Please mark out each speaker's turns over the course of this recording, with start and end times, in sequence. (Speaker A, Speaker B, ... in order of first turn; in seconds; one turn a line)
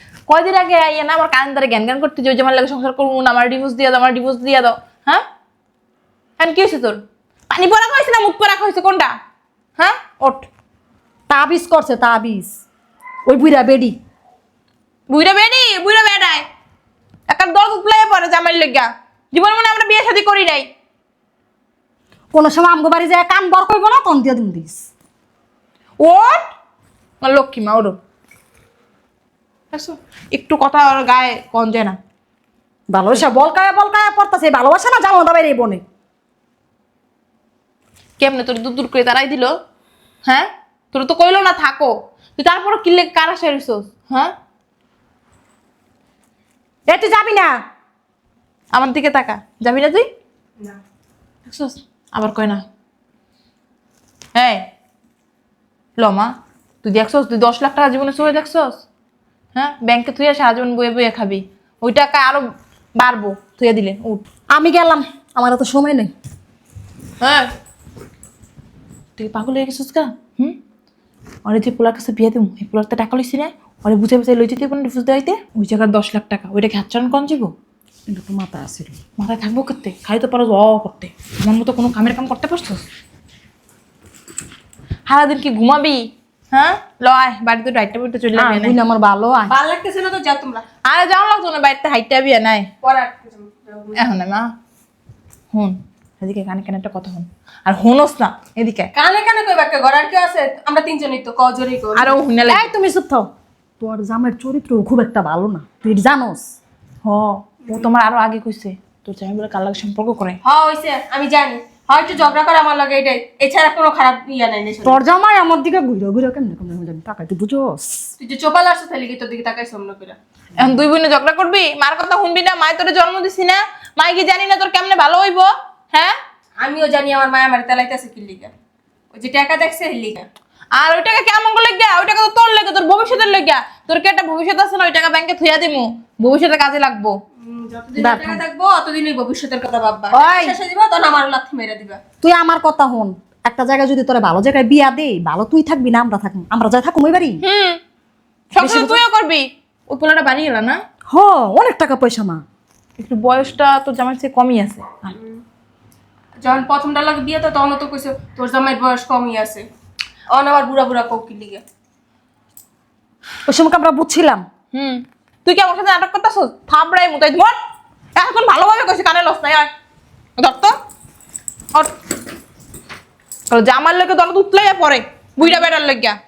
Speaker A: 0.3-5.2
Speaker A: 6.4-9.1
Speaker A: 9.8-10.5
Speaker B: 11.3-12.5
Speaker B: 13.3-14.0
Speaker A: 15.1-16.4
Speaker A: 17.3-20.7
Speaker B: 22.3-24.9
Speaker A: 26.0-26.5
Speaker A: 27.2-28.0
Speaker A: 29.7-32.0
Speaker B: 32.9-35.8
Speaker A: 38.2-39.5
Speaker A: 40.3-44.3
Speaker B: 46.9-47.6
Speaker A: 48.7-50.1
Speaker A: 51.5-52.6
Speaker A: 54.4-54.7
Speaker A: 56.0-58.8
Speaker A: 59.5-64.2
Speaker B: 64.5-66.1
Speaker A: 67.2-67.5
Speaker A: 69.2-70.6
Speaker A: 71.5-77.5
Speaker B: 78.1-79.0
Speaker A: 79.2-82.8
Speaker A: 85.1-88.8
Speaker B: 88.3-89.6
Speaker C: 89.5-90.6
Speaker A: 90.8-92.7
Speaker C: 92.8-94.0
Speaker A: 94.0-94.5
Speaker A: 95.5-98.9
Speaker C: 98.9-102.1
Speaker A: 102.0-102.7
Speaker B: 102.5-103.3
Speaker B: 103.8-106.5
Speaker A: 107.0-110.4
Speaker C: 110.4-115.0
Speaker B: 114.8-118.1
Speaker C: 118.2-120.2
Speaker A: 120.6-126.2
Speaker C: 126.6-128.5
Speaker C: 129.1-130.3
Speaker A: 130.8-137.2
Speaker C: 137.4-142.0
Speaker B: 138.0-138.4
Speaker B: 140.1-140.6
Speaker B: 142.2-147.4
Speaker A: 147.4-147.8
Speaker A: 148.5-150.8
Speaker B: 148.6-149.0
Speaker B: 151.1-152.4
Speaker A: 153.0-155.1
Speaker C: 156.4-159.7
Speaker C: 160.3-161.6
Speaker B: 163.5-164.4
Speaker A: 164.7-167.6
Speaker A: 168.2-169.7
Speaker A: 170.4-170.7
Speaker A: 173.5-176.2